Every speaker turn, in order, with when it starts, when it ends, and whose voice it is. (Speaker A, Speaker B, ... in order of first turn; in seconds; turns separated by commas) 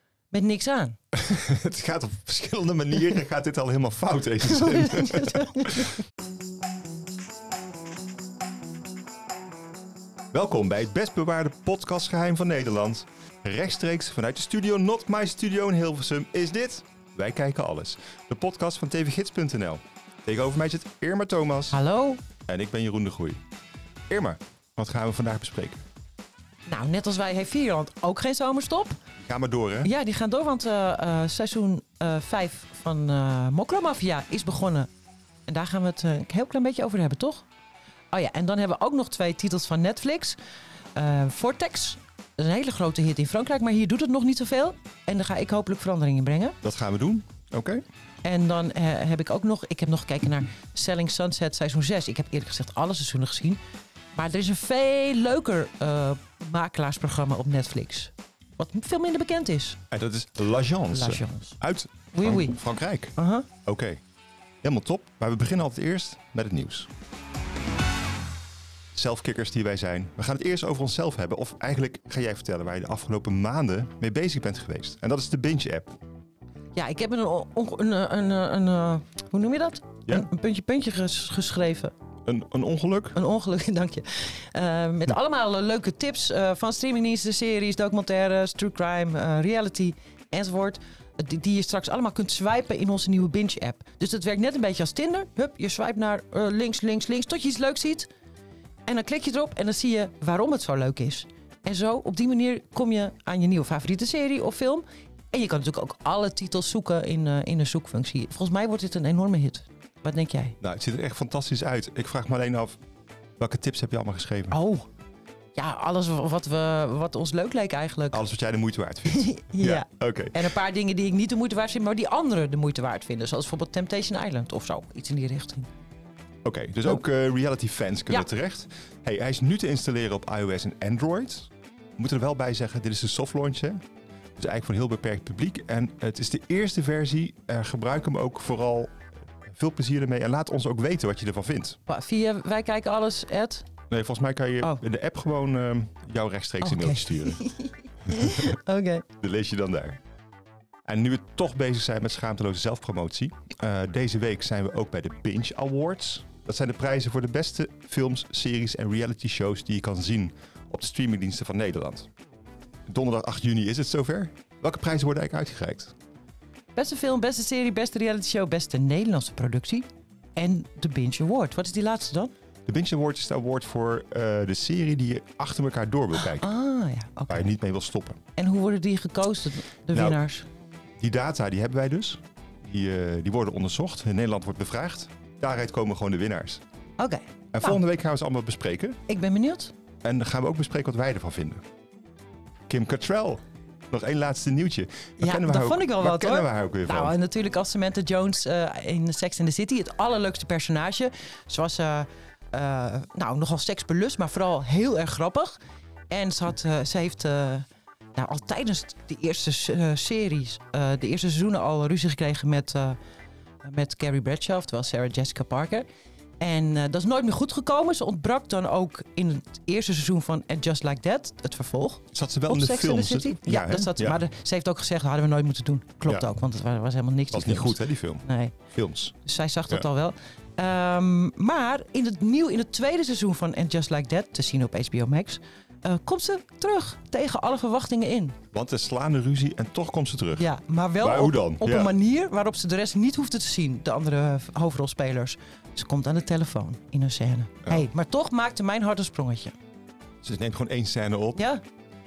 Speaker A: 0.3-1.0, Speaker B: 1.1-5.9, Speaker A: 4.5-5.9, Speaker B: 10.3-21.8, Speaker A: 21.7-22.2, Speaker B: 22.5-23.4, Speaker B: 24.1-25.8, Speaker A: 26.7-29.0, Speaker B: 29.2-29.9, Speaker A: 29.8-34.9, Speaker A: 35.5-37.5, Speaker A: 38.1-40.4, Speaker A: 41.0-46.6, Speaker B: 46.6-47.8, Speaker A: 48.2-53.6, Speaker A: 54.1-59.8, Speaker B: 59.9-64.0, Speaker A: 60.9-61.6, Speaker A: 62.1-62.6, Speaker A: 63.2-63.5, Speaker B: 64.6-66.9, Speaker B: 68.9-76.0, Speaker A: 76.8-81.9, Speaker B: 82.3-83.2, Speaker A: 83.2-98.1, Speaker A: 98.9-110.6, Speaker B: 110.6-112.8, Speaker B: 113.4-114.6, Speaker A: 114.5-114.9, Speaker A: 115.6-118.2, Speaker B: 118.1-120.5, Speaker A: 119.1-125.7, Speaker B: 126.4-133.8, Speaker B: 134.4-141.8, Speaker A: 141.9-143.7, Speaker B: 143.9-147.4, Speaker A: 146.6-149.1, Speaker B: 148.1-148.5, Speaker B: 149.2-150.0, Speaker B: 150.9-162.1, Speaker B: 162.9-165.9, Speaker A: 166.8-172.3, Speaker B: 172.7-176.5, Speaker A: 176.2-177.5, Speaker B: 177.3-178.2, Speaker A: 178.4-180.5, Speaker B: 179.9-180.2, Speaker B: 181.0-186.6, Speaker A: 187.0-187.8, Speaker B: 187.5-189.0, Speaker A: 189.1-189.7, Speaker B: 190.0-191.6, Speaker B: 192.7-197.2, Speaker A: 195.2-205.6, Speaker A: 206.1-213.0, Speaker A: 213.6-215.9, Speaker A: 216.4-228.6, Speaker B: 222.1-224.2, Speaker B: 227.3-229.2, Speaker A: 229.2-238.4, Speaker B: 238.5-240.5, Speaker A: 240.4-249.6, Speaker B: 241.0-241.9, Speaker B: 250.2-251.4, Speaker A: 251.4-251.6